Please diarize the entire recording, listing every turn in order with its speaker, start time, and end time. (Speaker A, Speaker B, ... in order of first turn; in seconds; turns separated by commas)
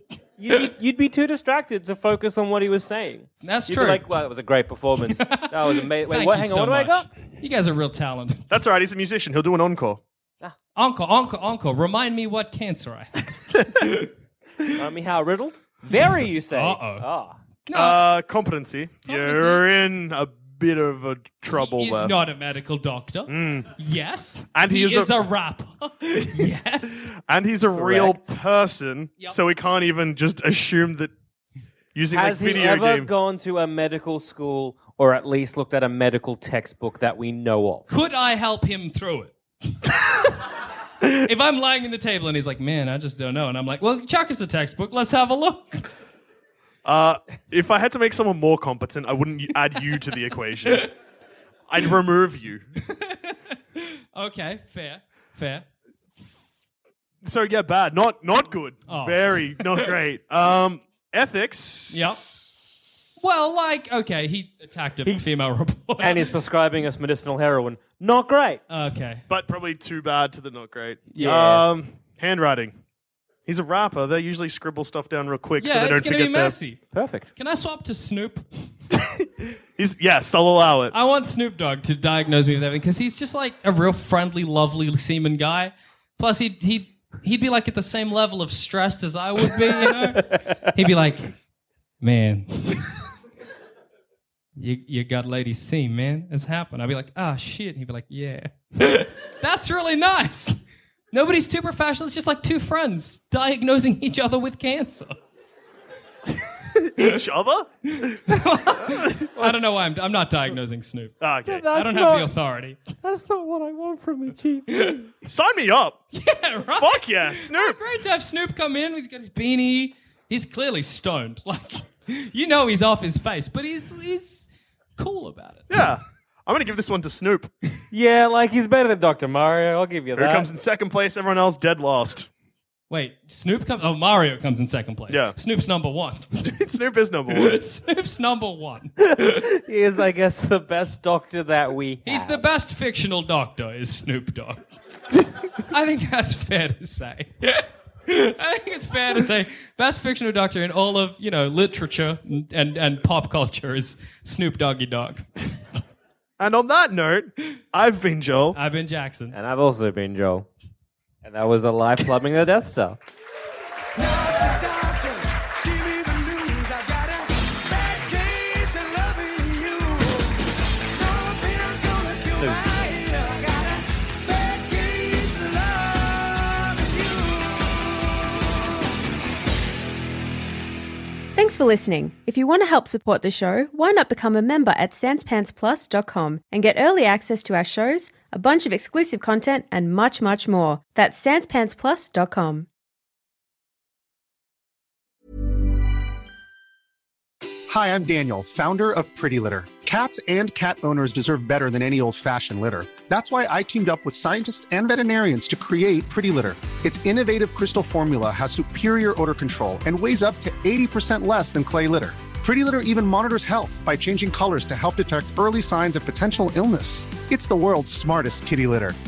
Speaker A: 0.4-7.0, Speaker B: 3.4-4.0, Speaker B: 5.1-8.4, Speaker C: 8.5-10.0, Speaker B: 10.8-13.5, Speaker A: 14.7-17.4, Speaker B: 16.5-17.1, Speaker B: 17.6-18.1, Speaker C: 17.7-22.1, Speaker B: 19.1-19.6, Speaker B: 21.5-27.1, Speaker C: 23.3-23.7, Speaker C: 24.5-25.1, Speaker C: 27.1-31.1, Speaker A: 27.7-28.2, Speaker C: 31.9-33.1, Speaker A: 32.1-37.9, Speaker B: 37.9-39.3, Speaker B: 41.0-45.9, Speaker C: 46.8-50.9, Speaker C: 51.7-52.6, Speaker B: 52.9-55.6, Speaker C: 57.2-62.1, Speaker B: 58.9-59.9, Speaker B: 61.9-62.2, Speaker B: 63.2-66.3, Speaker A: 66.0-68.6, Speaker B: 68.7-69.2, Speaker C: 69.3-72.7, Speaker B: 71.1-71.6, Speaker A: 71.2-71.6, Speaker C: 73.5-76.5, Speaker B: 75.6-76.8, Speaker A: 76.9-77.3, Speaker B: 77.3-78.5, Speaker C: 78.9-80.9, Speaker B: 80.9-91.3, Speaker A: 89.8-90.7, Speaker B: 92.0-93.0, Speaker B: 94.6-100.6, Speaker B: 101.1-105.2, Speaker C: 106.8-107.7, Speaker B: 107.9-111.1, Speaker C: 111.2-111.7, Speaker A: 111.5-112.3, Speaker B: 111.7-112.8, Speaker A: 113.0-114.9, Speaker B: 114.7-115.0, Speaker C: 115.2-116.0, Speaker B: 116.1-125.8, Speaker C: 116.8-117.8, Speaker C: 125.7-127.5, Speaker A: 127.9-130.5, Speaker C: 130.2-132.3, Speaker B: 132.9-136.3, Speaker C: 135.1-135.3, Speaker C: 136.3-137.6, Speaker B: 137.3-139.0, Speaker A: 139.1-142.5, Speaker B: 142.0-144.6, Speaker B: 145.7-155.2, Speaker C: 156.4-158.6, Speaker B: 158.5-159.3, Speaker A: 159.3-160.5, Speaker A: 161.2-163.0, Speaker A: 168.0-169.9, Speaker A: 171.2-173.1, Speaker D: 181.3-192.7, Speaker E: 197.7-218.9